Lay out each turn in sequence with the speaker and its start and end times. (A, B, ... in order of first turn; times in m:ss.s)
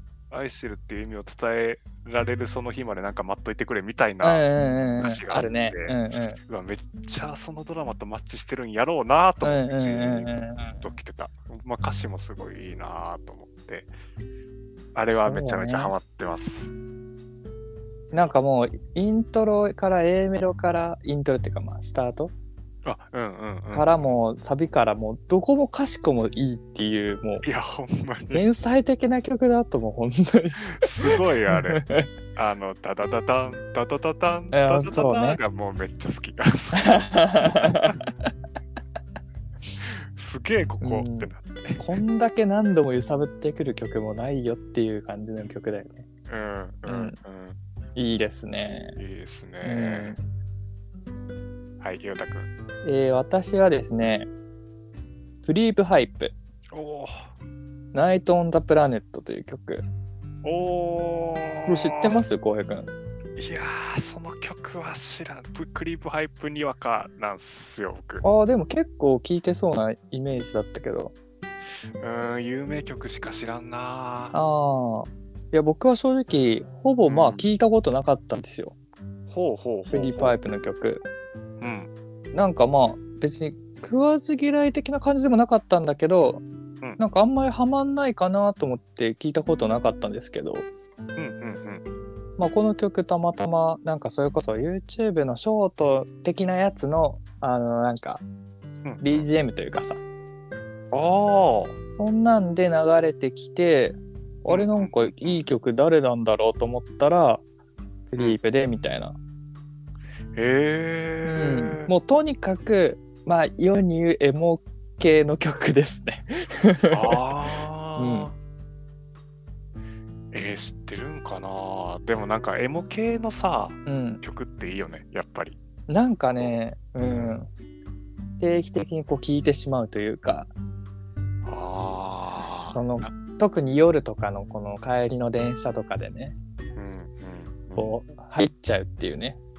0:00.3-0:04.4 A
0:04.2-0:06.4 B
0:05.0-0:06.0 A
0:06.5-0:13.9 A
0:09.4-0:10.9 B
0:14.9-0:16.7 A
0:15.1-0:15.9 B
0:18.1-0:22.3 B
0:22.8-0:24.1 A
0:23.7-0:27.4 B
0:27.4-0:28.4 A
0:28.3-0:32.1 B
0:30.7-0:31.8 A
0:32.3-0:37.9 A
0:34.5-0:35.4 B
0:36.8-0:38.0 B
0:39.8-0:42.0 A
0:40.8-0:46.0 B
0:46.3-0:47.6 A
0:46.8-0:47.2 B
0:48.0-0:49.0 B
0:49.0-0:50.2 A
0:49.6-0:50.2 B
0:51.8-0:52.5 A
0:52.8-0:54.3 B
0:55.4-0:56.3 B
0:56.7-0:57.3 A
0:57.9-0:59.8 B
1:00.4-1:02.2 A
1:01.6-1:02.9 B
1:03.4-1:08.2 A
1:08.2-1:11.1 B
1:12.0-1:14.3 A
1:14.3-1:18.7 B
1:17.0-1:17.5 A
1:19.3-1:20.4 A
1:19.9-1:21.0 B
1:21.6-1:21.9 A
1:22.3-1:26.4 B
1:27.0-1:30.6 B
1:31.2-1:31.8 A
1:32.4-1:38.2 B
1:38.8-1:39.3 A
1:39.0-1:40.0 B
1:40.9-1:41.8 A
1:41.9-1:47.4 B
1:44.5-1:45.5 A
1:48.1-1:49.2 B
1:50.3-1:51.9 A
1:51.2-1:57.2 B
1:56.9-1:58.3 A
1:58.0-1:58.3 B
2:00.3-2:05.6 A
2:03.8-2:04.2 B
2:05.9-2:07.5 B
2:06.4-2:07.4 A
2:08.4-2:10.5 B
2:11.4-2:13.1 A
2:12.7-2:16.4 B
2:16.8-2:17.9 A
2:17.8-2:19.4 B